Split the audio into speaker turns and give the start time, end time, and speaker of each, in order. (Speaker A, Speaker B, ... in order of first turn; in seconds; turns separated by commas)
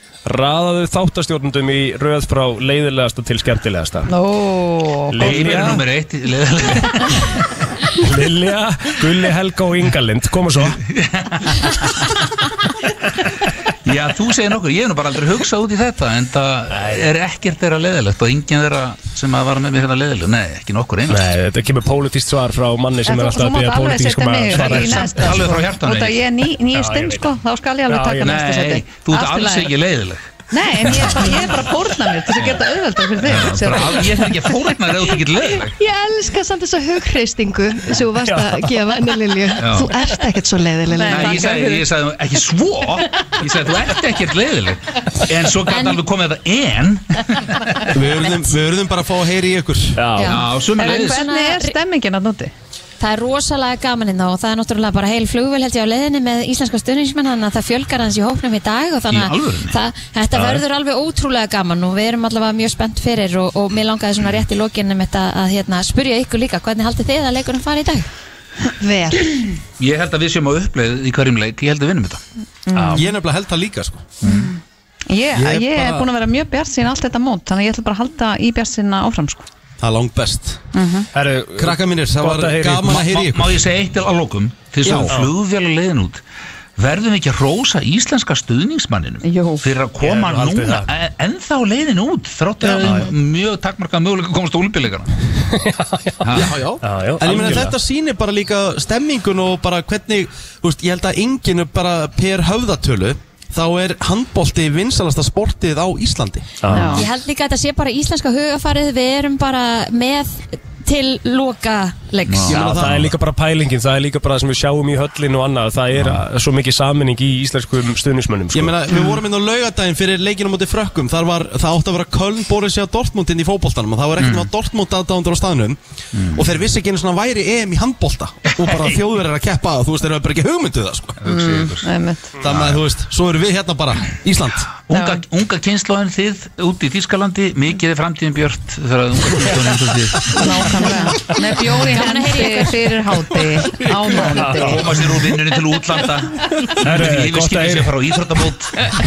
Speaker A: 0.2-4.1, Speaker B: 4.1-5.2, Speaker A: 5.1-5.8, Speaker C: 5.2-7.5, Speaker A: 7.9-10.8, Speaker C: 10.7-12.1, Speaker C: 13.8-21.3, Speaker A: 16.7-17.1, Speaker A: 21.1-25.5, Speaker B: 23.1-29.7, Speaker C: 24.5-26.2, Speaker A: 26.7-27.3, Speaker A: 27.9-28.4, Speaker C: 28.2-30.2, Speaker B: 30.5-34.7, Speaker C: 30.7-31.6, Speaker C: 32.4-32.6, Speaker C: 33.1-35.8, Speaker D: 35.6-41.6, Speaker A: 38.1-38.6, Speaker C: 39.6-40.0, Speaker B: 40.9-41.9, Speaker C: 41.0-47.8, Speaker E: 45.7-46.0, Speaker E: 47.9-48.5, Speaker F: 47.9-50.0, Speaker A: 50.0-50.4, Speaker E: 50.2-51.8, Speaker C: 50.2-51.3, Speaker B: 50.3-52.5, Speaker E: 53.0-68.1, Speaker C: 59.1-59.8, Speaker A: 60.3-60.6, Speaker D: 68.8-69.1, Speaker C: 69.8-72.2, Speaker B: 72.7-73.1, Speaker A: 72.7-73.0, Speaker F: 72.9-74.1, Speaker C: 74.2-74.5, Speaker B: 74.2-74.5, Speaker B: 75.1-79.5, Speaker F: 75.3-76.1, Speaker F: 79.8-80.7, Speaker B: 80.7-81.1, Speaker A: 81.1-83.2, Speaker F: 81.6-83.6, Speaker C: 83.0-86.2, Speaker F: 84.8-85.2, Speaker A: 84.8-85.3, Speaker C: 86.8-95.1, Speaker B: 89.2-89.7, Speaker A: 90.0-90.9, Speaker A: 92.6-93.1, Speaker A: 95.5-97.8, Speaker C: 96.2-96.5, Speaker F: 96.3-106.9, Speaker A: 106.6-107.0, Speaker B: 106.7-107.0, Speaker E: 106.8-112.6, Speaker C: 112.3-112.9, Speaker A: 112.5-118.7, Speaker F: 112.5-113.1, Speaker C: 115.9-116.2, Speaker F: 118.5-125.8, Speaker C: 124.2-124.5, Speaker C: 126.1-126.5, Speaker F: 126.3-131.2, Speaker C: 131.2-131.9, Speaker B: 131.2-132.4, Speaker F: 132.4-134.8, Speaker C: 132.4-132.8, Speaker C: 134.7-140.8, Speaker B: 134.9-135.2, Speaker B: 140.3-145.3, Speaker E: 141.9-142.7, Speaker C: 143.6-148.7, Speaker A: 144.2-145.0, Speaker A: 146.7-148.1